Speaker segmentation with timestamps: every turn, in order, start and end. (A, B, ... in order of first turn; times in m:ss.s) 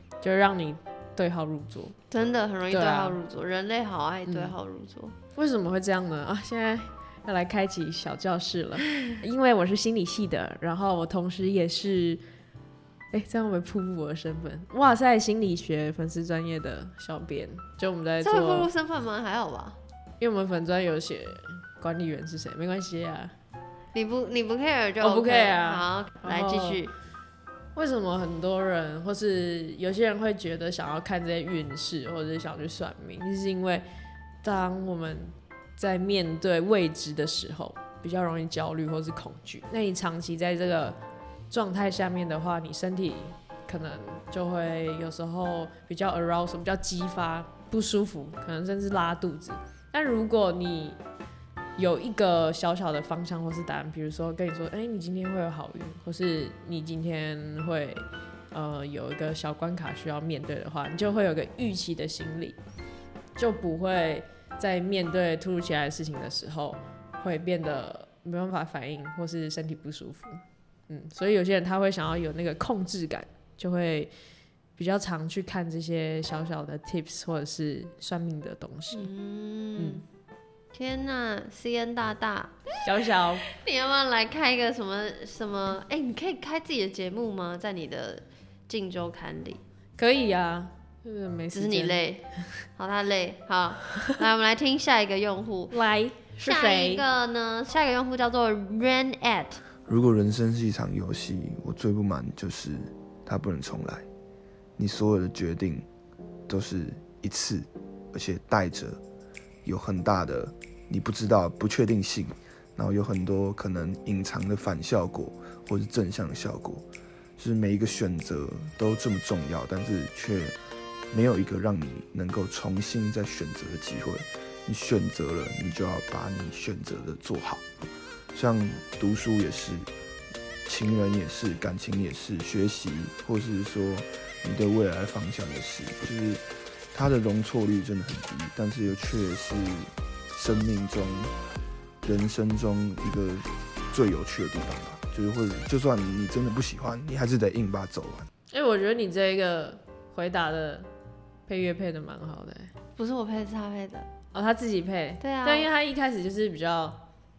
0:00.2-0:02.0 A
0:02.1-0:05.1 B
0:02.7-0:03.2 A
0:04.3-0:04.5 A
0:05.4-0:12.2 A
0:13.1-0:18.7 A
0:18.2-0:19.8 B
0:20.2-0:23.3 A
0:23.9-0:26.9 B
0:25.0-0:26.8 A
0:27.7-0:33.8 A
0:34.4-0:41.0 A
0:41.5-0:51.0 A
0:51.8-1:02.6 A
1:03.4-1:14.1 A
1:14.8-1:19.1 A
1:18.9-1:20.0 B
1:19.8-1:20.0 A
1:20.7-1:22.7 B
1:22.8-1:23.4 A
1:23.5-1:29.6 B
1:30.0-1:32.0 A
1:31.5-1:32.2 B
1:32.8-1:35.8 B
1:35.7-1:37.0 A
1:36.4-1:39.6 B
1:39.8-1:44.0 C
1:44.8-1:45.8 C
1:46.5-1:49.0 C
1:49.6-1:56.8 C
1:57.4-2:00.5 C
2:01.1-2:07.6 C
2:08.3-2:09.9 C
2:10.6-2:21.3 C
2:22.0-2:28.3 C
2:28.5-2:30.9 A
2:31.5-2:32.7 A
2:33.0-2:34.1 B
2:34.3-2:37.0 A
2:35.2-2:35.7 B